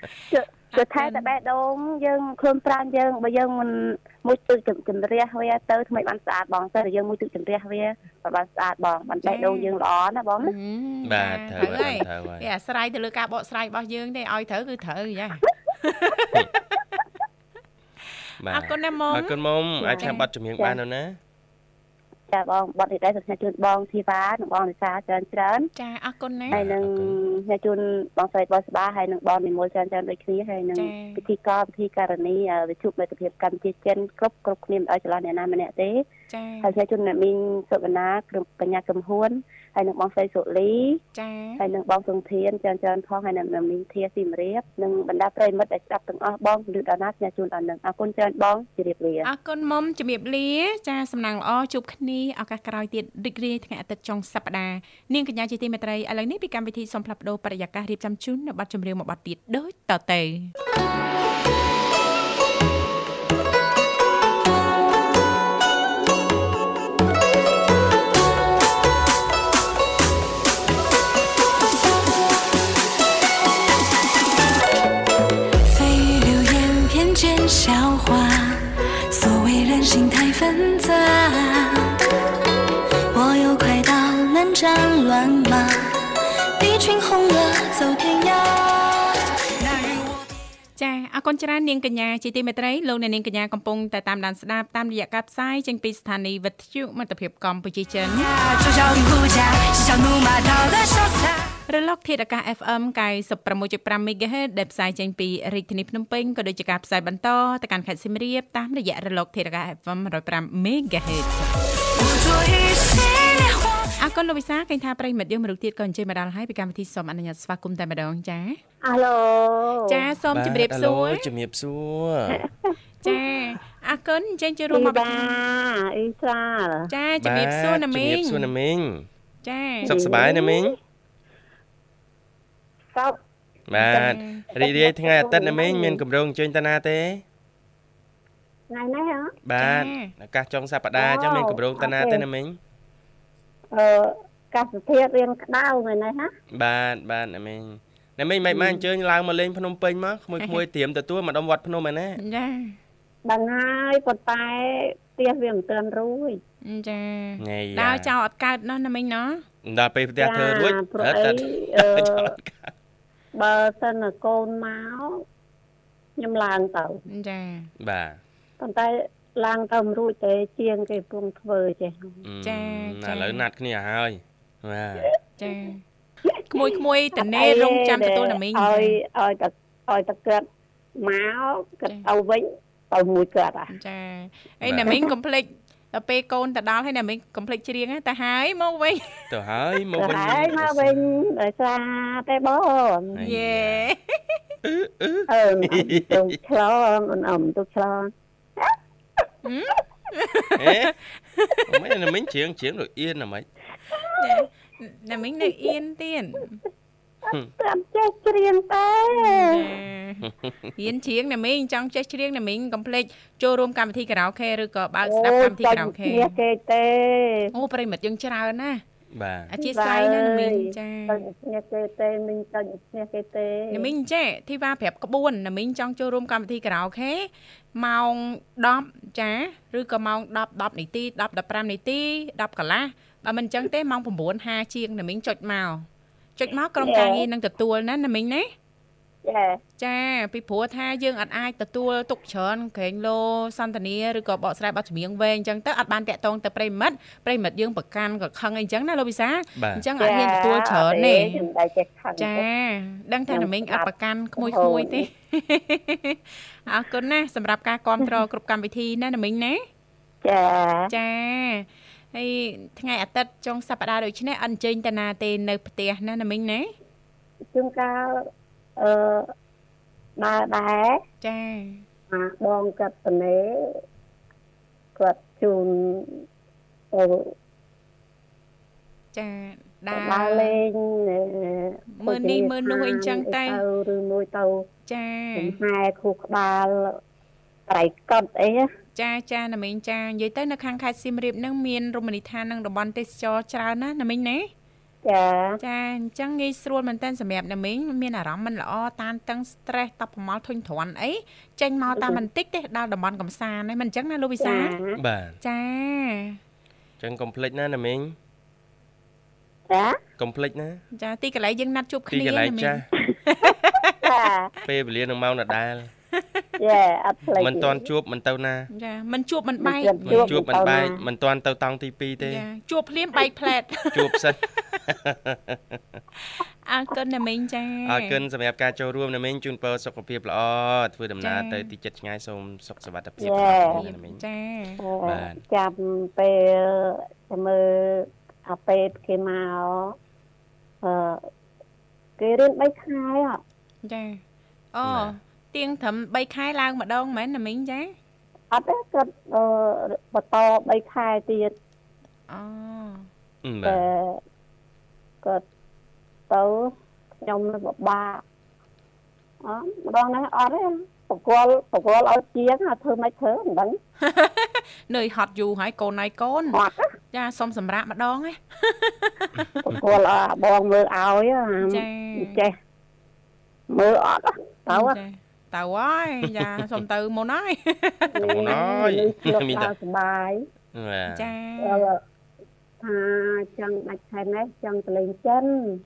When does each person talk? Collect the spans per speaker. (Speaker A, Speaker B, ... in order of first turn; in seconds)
Speaker A: 0.3-10.5, 19.8-20.8, 22.3-25.7, 26.5-36.1, 36.6-41.0, 41.6-49.3
Speaker B: 0.7-1.3, 9.2-9.7, 10.4-16.4, 18.5-19.4, 20.0-20.2, 25.8-26.6, 30.8-31.2, 36.3-36.7, 41.1-41.6, 49.2-60.5, 90.8-98.3, 101.7-111.5, 114.0-118.6, 119.9-121.3, 123.0-125.4, 126.9-128.5, 129.4-130.0, 133.8-134.5, 139.6-140.1, 152.2-152.8, 156.6-159.4, 167.1-167.7, 172.4-173.4, 175.4-175.8, 176.5-179.0, 183.7-189.3, 193.2-194.4, 199.4-201.7, 204.1-206.6, 209.1-216.4, 217.5-218.8, 219.5-221.2, 223.7-238.5, 239.8-251.4, 252.2-259.7, 260.9-266.7, 271.2-271.9, 279.1-280.6, 281.9-283.6, 284.9-285.6, 288.9-294.5, 295.6-304.8, 305.4-306.4, 310.9-313.9, 318.7-320.4, 322.2-324.2, 326.2-328.2, 331.2-331.7, 333.6-334.8, 343.8-344.2, 344.7-348.0, 352.3-353.1, 364.0-366.6, 367.1-369.5, 371.6-372.4, 374.7-378.6, 381.1-381.9
Speaker C: 11.1-12.5, 18.4-21.2, 26.5-27.2, 120.3-122.4, 127.2-129.1, 129.9-130.8, 133.7-137.2, 139.4-142.6, 146.5-152.2, 157.4-158.1, 159.6-162.7, 167.8-168.2, 172.2-175.1, 184.6-185.0, 189.3-191.0, 193.2-193.9, 194.6-196.3, 200.6-200.9, 201.7-203.5, 219.1-219.5, 249.6-249.9, 305.0-305.4, 307.0-308.1, 310.2-310.8, 312.1-312.9, 314.6-315.9, 317.4-318.7, 320.1-322.4, 323.9-325.8, 327.9-334.2, 335.1-335.4, 344.8-345.1, 353.4-353.9, 378.2-379.7, 380.7-381.3
Speaker D: 75.6-82.0, 83.1-86.1, 86.6-90.5, 98.2-101.5, 111.9-113.8
Speaker E: 118.8-120.0, 122.3-122.8, 124.7-126.9, 129.8-130.8, 134.6-136.0, 138.7-139.3, 141.0-142.2, 143.7-146.3, 148.5-148.8, 153.3-156.4, 160.2-162.3, 163.4-165.2, 166.2-167.0, 168.6-172.2, 177.2-180.5, 181.0-183.7, 190.0-193.2, 195.3-198.8, 207.3-209.7, 215.0-217.5, 219.6-223.9, 236.8-237.2, 239.2-239.6, 250.0-252.4, 253.3-255.1, 260.2-260.9, 267.5-268.3, 268.8-269.3, 270.2-271.0, 272.1-273.8, 275.0-276.2, 276.9-277.3, 279.9-284.7, 285.4-287.0, 287.7-288.7, 295.0-295.6, 301.9-302.2, 304.4-305.0, 309.7-310.0, 314.0-314.5, 316.6-317.9, 319.6-321.0, 333.2-333.8, 334.8-339.9, 340.8-341.2, 342.2-343.4, 348.5-351.5, 353.6-354.2, 356.3-358.2, 359.4-363.8, 366.5-366.9, 369.6-372.6, 373.7-375.0, 378.1-380.4, 381.6-382.0, 382.8-385.8